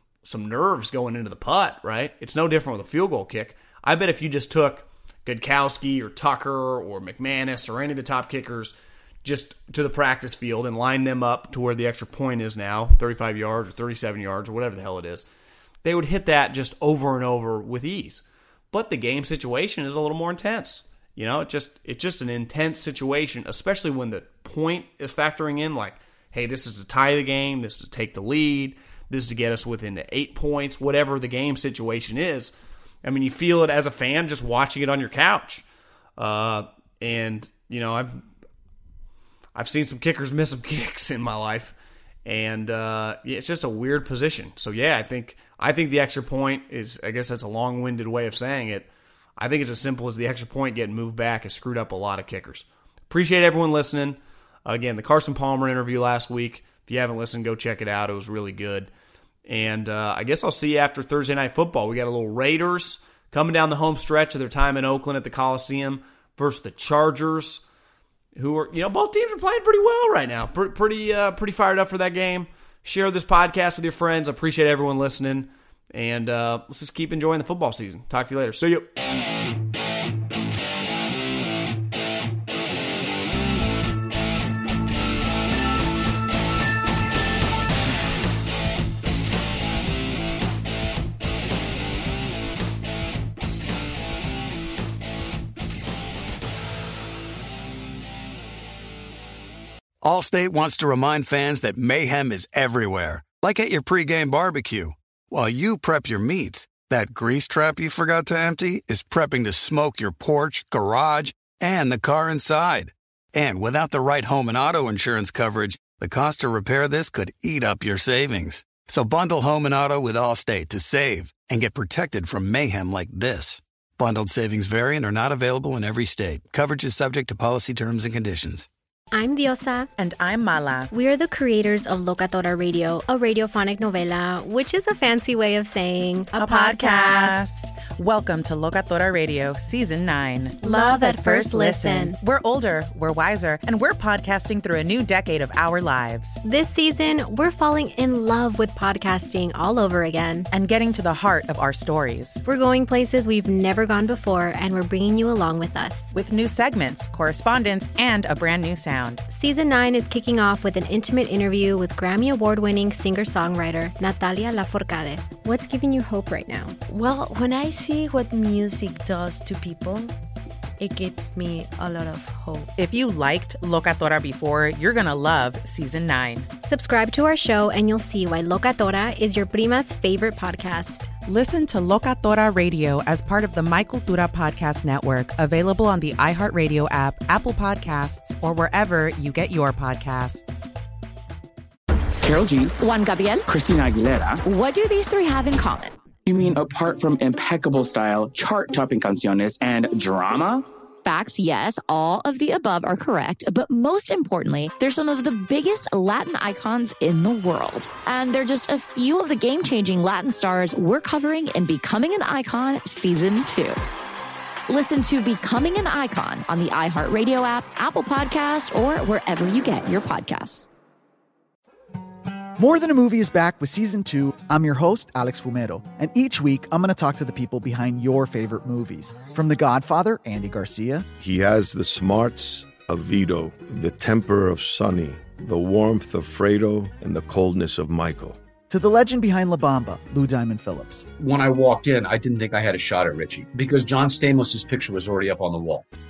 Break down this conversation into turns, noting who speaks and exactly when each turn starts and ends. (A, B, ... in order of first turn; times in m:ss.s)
0:00.2-0:15.2 A
0:15.8-0:32.5 A
0:33.0-0:35.6 A
0:36.2-0:38.2 A
0:39.5-0:41.7 A
0:42.2-0:58.9 A
0:59.4-1:07.6 A
1:08.4-1:18.9 A
1:40.0-2:08.7 B
2:09.1-2:09.9 C
2:10.0-2:10.9 D
2:10.9-2:17.4 C
2:16.3-2:26.4 D
2:20.6-2:22.2 C
2:26.4-2:30.5 C
2:30.5-2:32.4 D
2:32.4-2:36.1 C
2:36.1-2:39.2 D
2:39.3-2:46.8 C
2:46.9-2:50.1 E
2:50.8-2:52.7 E
2:52.8-2:56.5 D
2:56.6-3:01.1 C
3:01.2-3:10.6 D
3:12.2-3:12.7 F
3:12.8-3:13.5 G
3:13.5-3:14.4 F
3:14.4-3:16.0 G
3:16.2-3:20.6 F
3:21.0-3:33.8 G
3:34.7-3:40.6 G
3:42.6-3:51.1 H
3:51.2-3:58.4 I
3:58.7-4:01.1 H
4:01.2-4:05.8 J